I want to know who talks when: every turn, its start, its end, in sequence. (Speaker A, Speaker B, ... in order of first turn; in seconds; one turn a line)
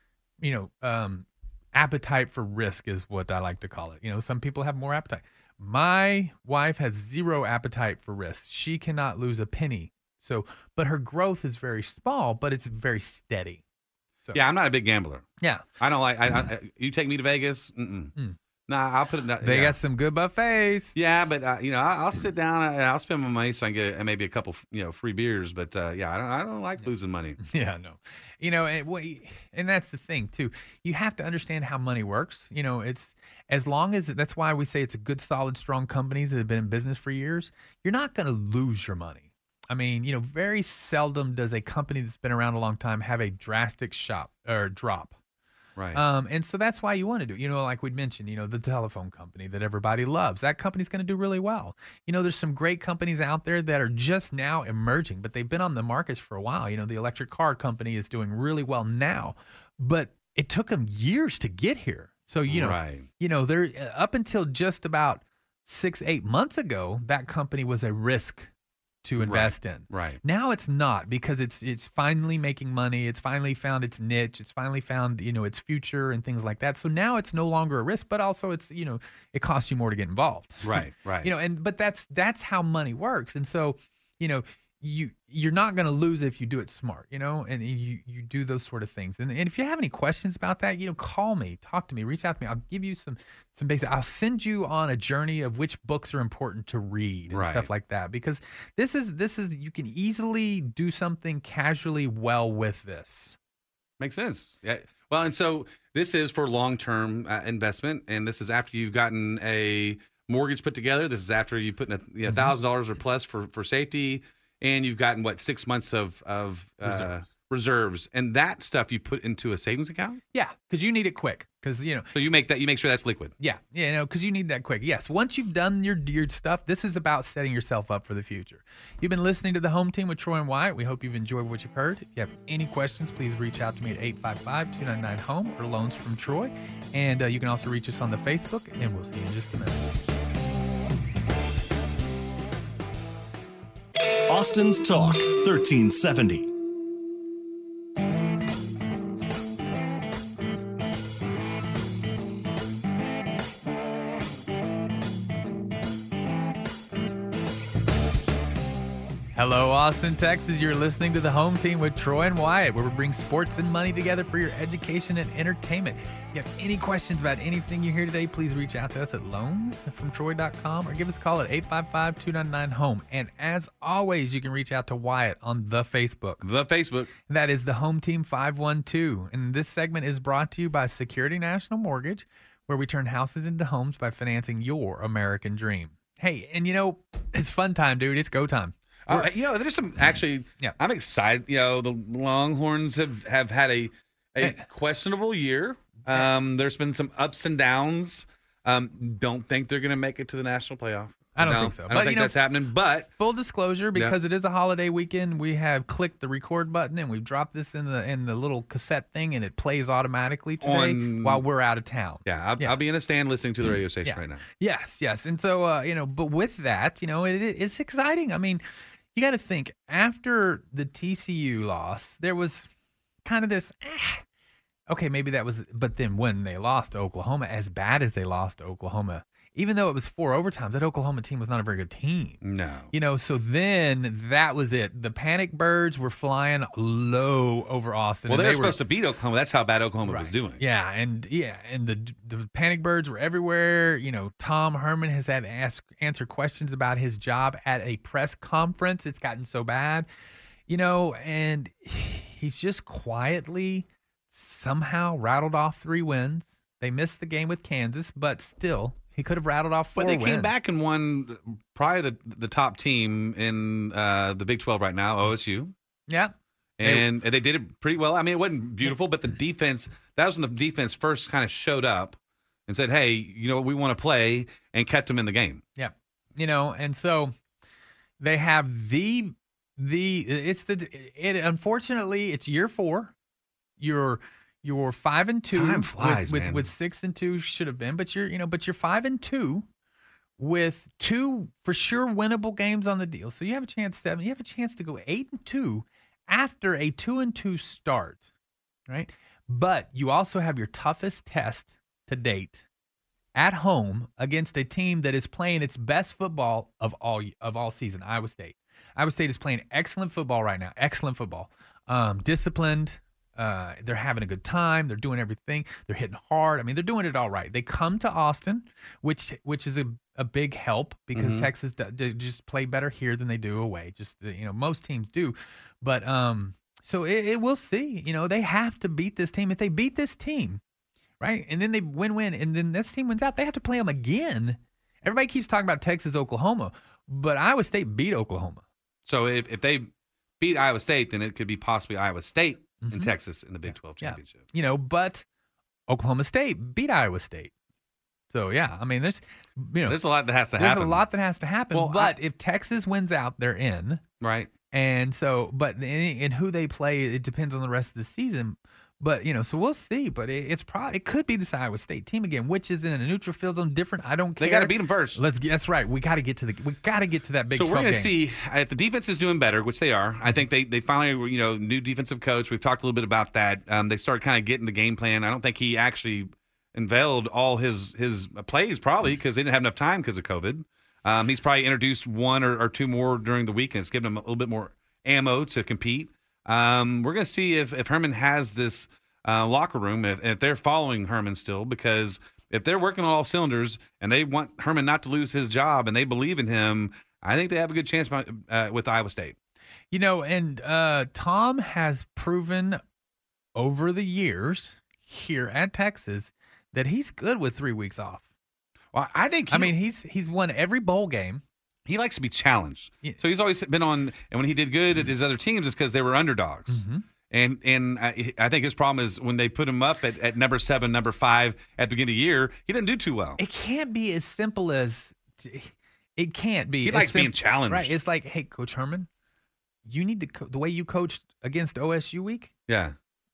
Speaker A: 0.4-13.6
Speaker B: 14.3-15.2
Speaker B: 15.8-18.1
Speaker B: 18.7-19.8
Speaker A: 19.4-20.9
Speaker B: 20.9-27.4
Speaker A: 27.4-45.1
Speaker B: 45.8-46.0
Speaker A: 45.9-68.5
Speaker B: 62.5-63.1
Speaker A: 69.0-103.4
Speaker B: 69.2-70.2
Speaker B: 80.6-81.3
Speaker B: 97.3-97.7
Speaker B: 104.0-120.2
Speaker A: 112.2-112.5
Speaker A: 116.8-117.1
Speaker A: 120.3-122.1
Speaker B: 122.1-123.3
Speaker A: 123.4-139.9
Speaker C: 144.3-146.5
Speaker A: 159.3-176.4
Speaker B: 176.4-177.1
Speaker A: 177.3-189.3
Speaker B: 189.1-203.1
Speaker A: 201.4-202.4
Speaker A: 203.2-212.8
Speaker B: 210.6-211.4
Speaker B: 212.2-214.4
Speaker A: 214.1-222.7
Speaker A: 223.2-224.2
Speaker A: 224.9-232.4
Speaker B: 232.4-232.9
Speaker A: 232.9-238.8
Speaker B: 238.3-240.6
Speaker A: 240.1-250.1
Speaker A: 250.7-260.6
Speaker B: 260.0-265.7
Speaker A: 266.1-267.1
Speaker B: 266.8-272.1
Speaker B: 272.7-275.6
Speaker A: 275.8-277.3
Speaker A: 278.2-283.1
Speaker A: 283.8-289.6
Speaker B: 285.5-286.7
Speaker A: 290.4-298.2
Speaker A: 298.9-302.6
Speaker A: 303.3-330.6
Speaker B: 321.1-321.5
Speaker A: 331.2-338.6
Speaker B: 339.1-339.9
Speaker B: 340.4-344.4
Speaker A: 342.8-343.1
Speaker A: 343.7-345.2
Speaker A: 345.9-347.5
Speaker A: 348.3-350.0
Speaker B: 349.9-351.1
Speaker A: 350.6-354.0
Speaker B: 351.7-352.1
Speaker B: 354.2-354.5
Speaker A: 354.7-368.1
Speaker B: 364.4-365.2
Speaker B: 367.5-399.3
Speaker A: 399.9-402.8
Speaker A: 403.6-408.2
Speaker B: 408.9-409.7
Speaker A: 409.5-411.4
Speaker B: 411.9-423.4
Speaker A: 416.7-417.1
Speaker A: 423.4-429.1
Speaker B: 426.8-428.0
Speaker A: 429.9-432.5
Speaker B: 432.7-432.9